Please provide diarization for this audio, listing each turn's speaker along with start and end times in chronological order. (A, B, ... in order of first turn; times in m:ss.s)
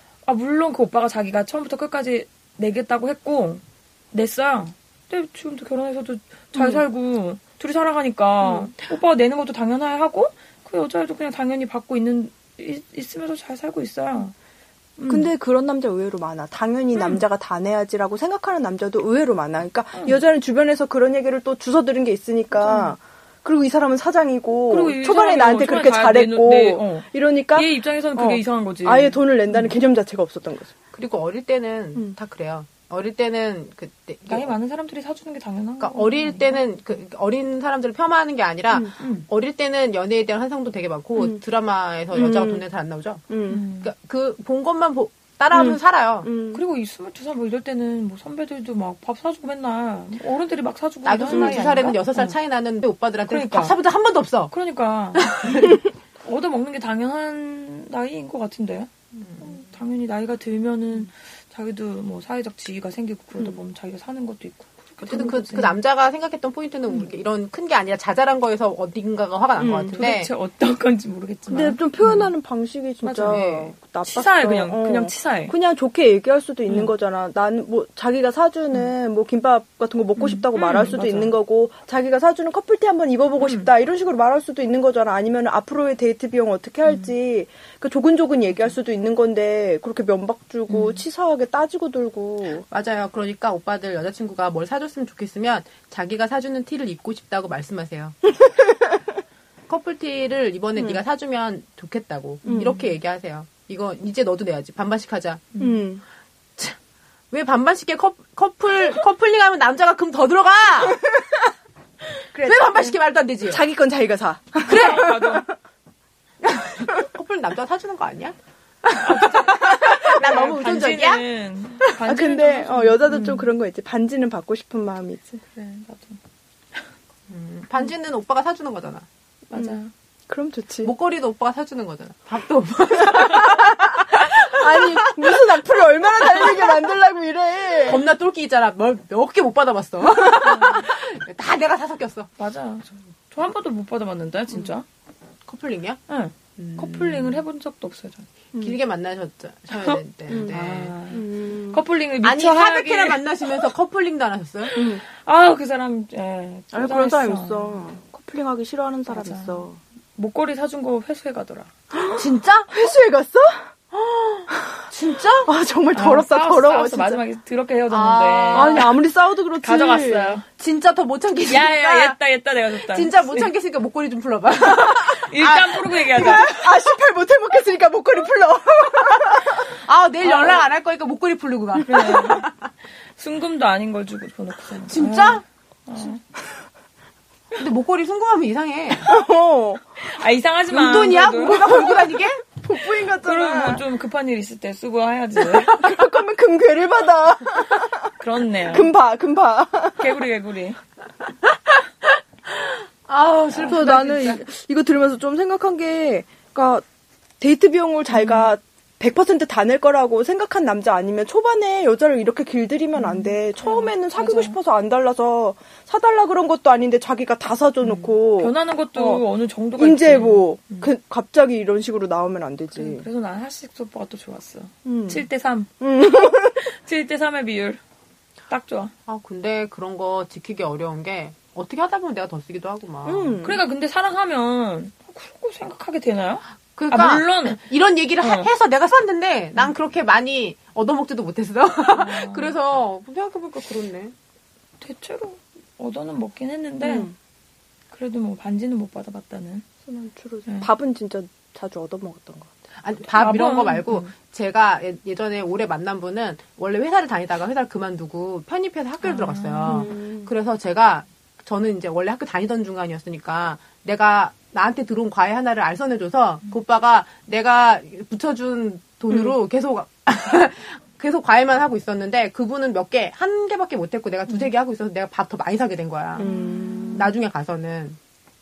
0:00.3-0:14.3 A
0:06.6-0:06.8 B
0:08.4-0:08.7 B
0:15.0-0:15.3 A
0:15.1-0:30.7 B
0:17.0-0:17.2 A
0:22.6-0:22.9 A
0:24.7-0:29.7 A
0:30.9-0:34.5 C
0:34.3-0:36.6 A
0:35.8-0:43.3 C
0:39.0-0:39.3 A
0:42.1-0:42.6 B
0:43.3-0:43.6 B
0:43.5-0:43.9 A
0:43.8-0:46.3 C
0:45.5-0:46.6 B
0:46.5-0:52.4 A
0:51.1-0:54.5 C
0:51.2-0:51.7 B
0:53.3-0:53.8 A
0:54.5-1:05.8 A
0:55.2-0:55.8 C
0:59.2-0:59.5 C
1:05.1-1:10.3 C
1:09.6-1:10.0 B
1:10.0-1:12.3 A
1:11.5-1:32.7 B
1:13.0-1:13.5 A
1:13.3-1:13.7 C
1:14.1-1:15.5 A
1:20.2-1:21.4 A
1:23.4-1:23.7 A
1:26.9-1:27.1 A
1:30.7-1:31.0 A
1:32.7-1:38.2 C
1:38.4-1:39.0 B
1:39.7-1:45.5 C
1:42.4-1:42.8 B
1:42.5-1:42.8 A
1:45.6-1:45.8 A
1:45.6-1:46.0 B
1:47.3-1:51.0 C
1:50.8-1:51.4 B
1:52.3-1:55.4 B
1:52.4-1:53.6 C
1:54.6-1:55.5 A
1:54.7-1:55.3 C
1:56.4-2:01.2 C
1:59.0-2:03.5 A
2:02.1-2:05.4 B
2:05.5-2:06.2 A
2:07.3-2:09.1 C
2:09.5-2:09.9 A
2:09.5-2:09.8 B
2:10.3-2:10.9 B
2:10.8-2:15.4 C
2:13.0-2:18.0 B
2:16.3-2:16.8 C
2:17.8-2:22.3 C
2:20.4-2:20.9 A
2:22.4-2:24.9 A
2:25.5-2:26.0 C
2:26.1-2:28.3 A
2:26.6-2:27.4 C
2:28.6-2:30.9 C
2:30.5-2:33.5 A
2:31.1-2:31.8 B
2:32.2-2:34.8 C
2:34.7-2:37.8 A
2:34.8-2:35.0 B
2:36.7-2:39.8 B
2:39.1-2:41.7 A
2:41.9-2:43.7 B
2:42.2-2:42.8 C
2:43.9-2:45.5 C
2:44.5-2:44.8 B
2:45.5-2:47.2 B
2:45.9-2:48.9 A
2:47.9-2:48.9 C
2:48.5-2:50.4 B
2:49.6-2:50.5 A
2:50.6-2:52.2 C
2:51.5-2:53.5 A
2:52.8-2:56.6 C
2:54.7-2:56.5 A
2:56.2-2:59.7 B
2:59.4-3:02.5 C
3:00.2-3:00.6 A
3:01.8-3:02.5 A
3:03.1-3:06.2 A
3:04.8-3:05.4 C
3:07.6-3:09.1 C
3:09.0-3:10.0 B
3:10.0-3:11.9 A
3:10.7-3:12.4 C
3:11.7-3:13.8 B
3:13.1-3:15.8 A
3:15.7-3:18.1 B
3:18.2-3:18.9 A
3:18.7-3:20.1 B
3:20.0-3:20.8 A
3:21.5-3:24.4 C
3:23.6-3:26.8 B
3:27.4-3:39.2 B
3:28.1-3:28.5 A
3:33.0-3:34.6 A
3:37.8-3:40.9 A
3:39.8-3:43.1 B
3:42.8-3:47.8 A
3:44.8-3:45.2 B
3:45.8-3:46.6 B
3:48.5-3:48.9 A
3:49.1-3:53.4 C
3:53.0-3:53.6 B
3:53.4-3:57.6 A
3:56.8-4:04.1 C
3:58.2-3:58.5 A
4:01.9-4:02.6 A
4:04.8-4:07.1 A
4:06.8-4:07.2 B
4:07.9-4:09.7 A
4:09.8-4:12.5 B
4:12.8-4:36.3 C
4:13.2-4:14.1 A
4:19.0-4:19.9 A
4:19.7-4:20.3 B
4:36.2-4:37.1 B
4:36.2-4:37.0 A
4:36.9-4:38.0 C